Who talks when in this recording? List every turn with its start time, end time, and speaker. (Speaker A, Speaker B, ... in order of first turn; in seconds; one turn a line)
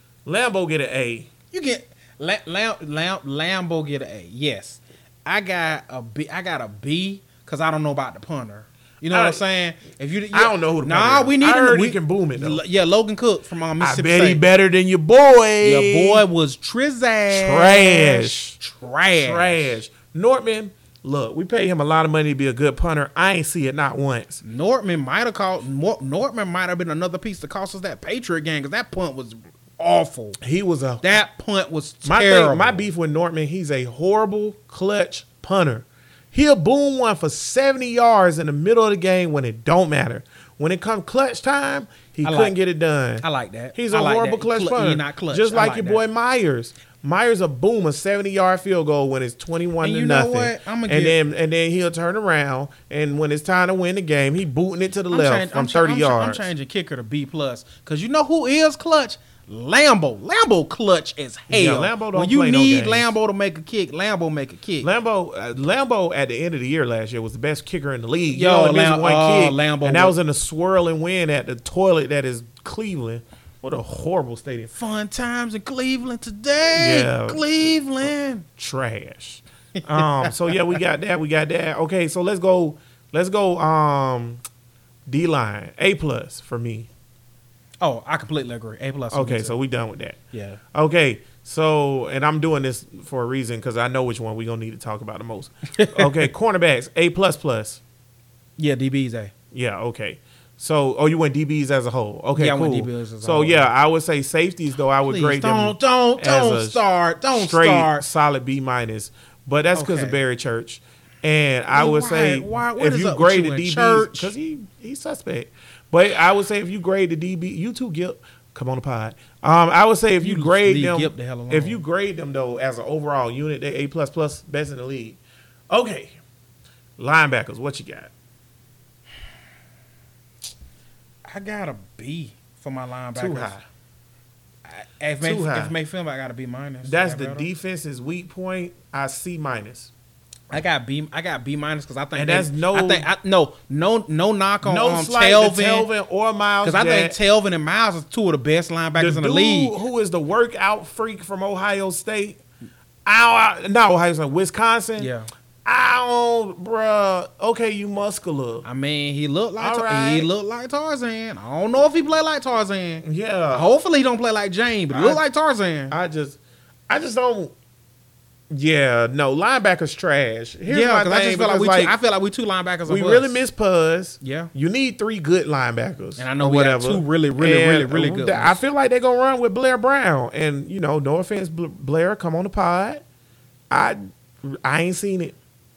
Speaker A: 0.2-1.3
Speaker B: 1.5-14.4
Speaker A: 9.1-9.4
Speaker A: 10.3-12.6
Speaker A: 13.8-16.2
Speaker B: 15.6-19.8
Speaker A: 17.3-18.6
Speaker A: 19.1-24.4
Speaker B: 24.4-30.4
Speaker A: 30.4-31.1
Speaker B: 31.0-32.9
Speaker A: 32.0-56.5
Speaker B: 42.2-42.5
Speaker B: 43.2-46.0
Speaker B: 49.8-51.2
Speaker B: 55.1-64.9
Speaker A: 61.5-63.1
Speaker A: 64.8-74.7
Speaker B: 68.3-70.2
Speaker B: 74.8-78.5
Speaker A: 76.7-77.5
Speaker A: 78.0-84.4
Speaker B: 79.8-80.8
Speaker A: 85.1-86.9
Speaker B: 87.8-89.6
Speaker A: 89.1-90.2
Speaker B: 90.3-90.6
Speaker A: 90.7-97.8
Speaker B: 95.7-96.3
Speaker B: 98.6-99.3
Speaker A: 99.5-125.2
Speaker B: 102.3-103.7
Speaker B: 105.1-108.1
Speaker B: 109.8-110.2
Speaker B: 111.7-114.3
Speaker B: 120.2-121.8
Speaker A: 125.7-126.2
Speaker A: 127.0-128.1
Speaker B: 131.3-133.6
Speaker A: 133.2-133.6
Speaker B: 134.7-137.5
Speaker A: 135.2-135.8
Speaker A: 136.8-139.9
Speaker B: 140.5-145.9
Speaker A: 142.2-143.1
Speaker A: 144.6-147.2
Speaker B: 146.6-149.8
Speaker A: 149.0-152.4
Speaker A: 153.1-155.1
Speaker B: 155.0-155.3
Speaker A: 155.7-158.7
Speaker B: 158.6-166.0
Speaker A: 159.6-160.3
Speaker A: 163.0-163.7
Speaker A: 164.9-165.2
Speaker A: 165.9-167.5
Speaker A: 168.5-171.9
Speaker B: 170.7-173.4
Speaker A: 172.9-183.0
Speaker B: 174.2-174.5
Speaker B: 176.2-178.6
Speaker A: 183.7-185.4